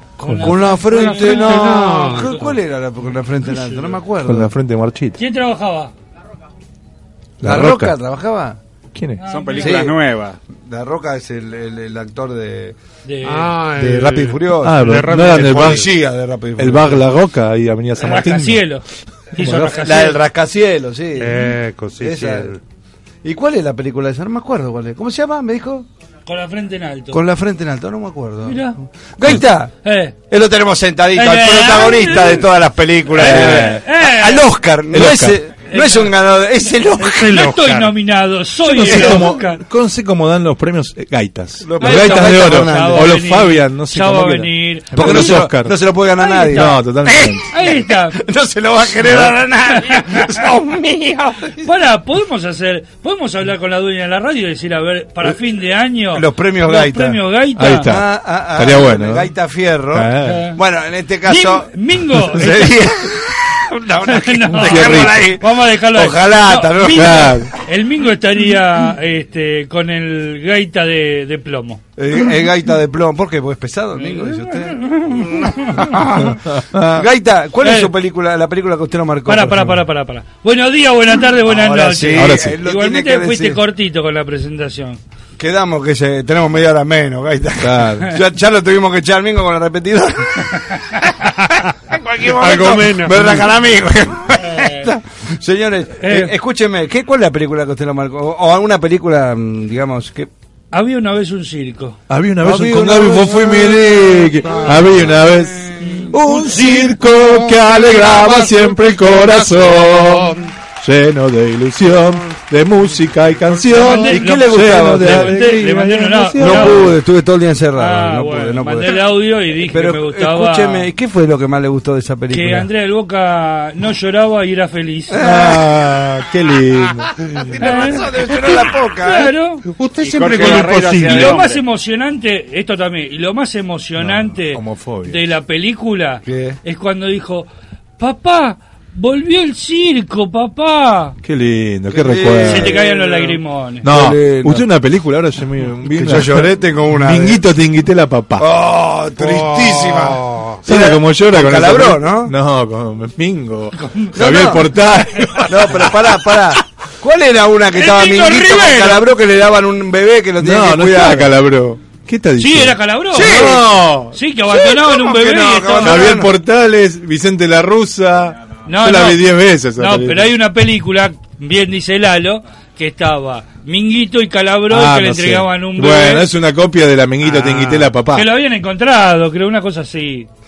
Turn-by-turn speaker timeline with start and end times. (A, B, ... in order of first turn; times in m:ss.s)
0:00.2-0:02.5 A
0:00.2-0:00.6 B
0:00.4-0:04.5 C
0:00.9-0:02.3 D
0:03.6-0:03.9 D
0:04.2-0:05.2 B
0:05.2-0:05.9 A
0:07.4-0:08.0 B
0:07.4-0:08.6 C
0:08.9-0:09.2 B
0:09.2-0:09.8 A
0:09.2-0:10.4 E
0:09.6-0:10.0 C
0:10.6-0:12.8 C
0:13.0-0:13.6 A
0:13.2-0:15.8 D
0:13.8-0:17.0 C
0:14.6-0:15.9 B
0:16.6-0:18.7 B
0:18.0-0:18.8 A
0:19.3-0:20.2 A
0:19.4-0:22.5 C
0:21.2-0:22.6 D
0:23.2-0:25.9 C
0:26.2-0:27.2 A
0:27.1-0:29.7 C
0:28.4-0:28.8 A
0:29.8-0:30.2 A
0:30.3-0:37.4 C
0:31.2-0:32.5 A
0:33.1-0:34.5 A
0:33.2-0:33.8 B
0:34.9-0:35.4 B
0:35.7-0:39.6 A
0:37.0-0:37.9 D
0:38.6-0:45.8 B
0:38.9-0:39.2 C
0:41.6-0:43.2 C
0:41.8-0:45.4 A
0:44.9-0:51.7 C
0:46.2-0:46.8 A
0:46.5-0:47.4 B
0:47.5-0:48.2 A
0:49.7-0:50.2 A
0:51.6-0:57.9 A
0:56.1-0:57.2 C
0:57.6-0:59.3 B
0:57.8-1:07.4 C
0:59.9-1:00.5 B
1:00.2-1:00.6 A
1:01.2-1:02.8 A
1:04.0-1:11.8 A
1:04.6-1:05.3 B
1:06.9-1:07.5 B
1:12.0-1:19.8 C
1:14.0-1:15.8 A
1:16.2-1:17.1 B
1:17.6-1:17.9 A
1:19.3-1:25.0 A
1:21.4-1:23.6 C
1:22.1-1:22.6 B
1:25.4-1:30.6 C
1:27.6-1:28.1 B
1:31.9-1:40.3 C
1:32.2-1:33.4 D
1:36.0-1:36.3 A
1:40.7-1:42.0 A
1:42.1-1:56.9 B
1:42.4-1:45.2 C
1:44.4-1:44.8 D
1:45.8-1:46.1 A
1:46.1-1:46.6 C
1:46.4-1:50.5 D
1:53.4-1:53.8 D
1:53.7-1:56.9 A
1:53.9-1:55.6 C
1:56.4-1:59.0 C
1:57.8-2:00.9 A
1:59.6-2:02.7 C
2:02.3-2:05.2 A
2:05.1-2:05.6 C
2:05.2-2:07.1 B
2:07.4-2:09.3 C
2:07.6-2:09.6 A
2:09.6-2:11.4 D
2:10.0-2:11.6 E
2:10.3-2:21.2 A
2:14.0-2:15.2 B
2:16.2-2:16.6 C
2:21.2-2:22.7 B
2:21.9-2:24.6 C
2:22.4-2:23.8 A
2:23.8-2:28.5 B
2:25.8-2:27.4 C
2:28.4-2:32.3 C
2:29.2-2:30.6 D
2:30.6-2:36.0 B
2:33.8-2:34.1 A
2:34.2-2:34.7 C
2:35.4-2:41.3 C
2:37.8-2:39.1 A
2:40.4-2:44.2 B
2:42.4-2:43.6 A
2:43.1-2:43.7 C
2:44.1-2:46.1 A
2:44.5-2:46.3 C
2:45.8-2:50.3 B
2:48.6-2:56.3 A
2:54.7-2:58.3 B
2:57.2-2:57.9 D
2:58.1-3:00.3 A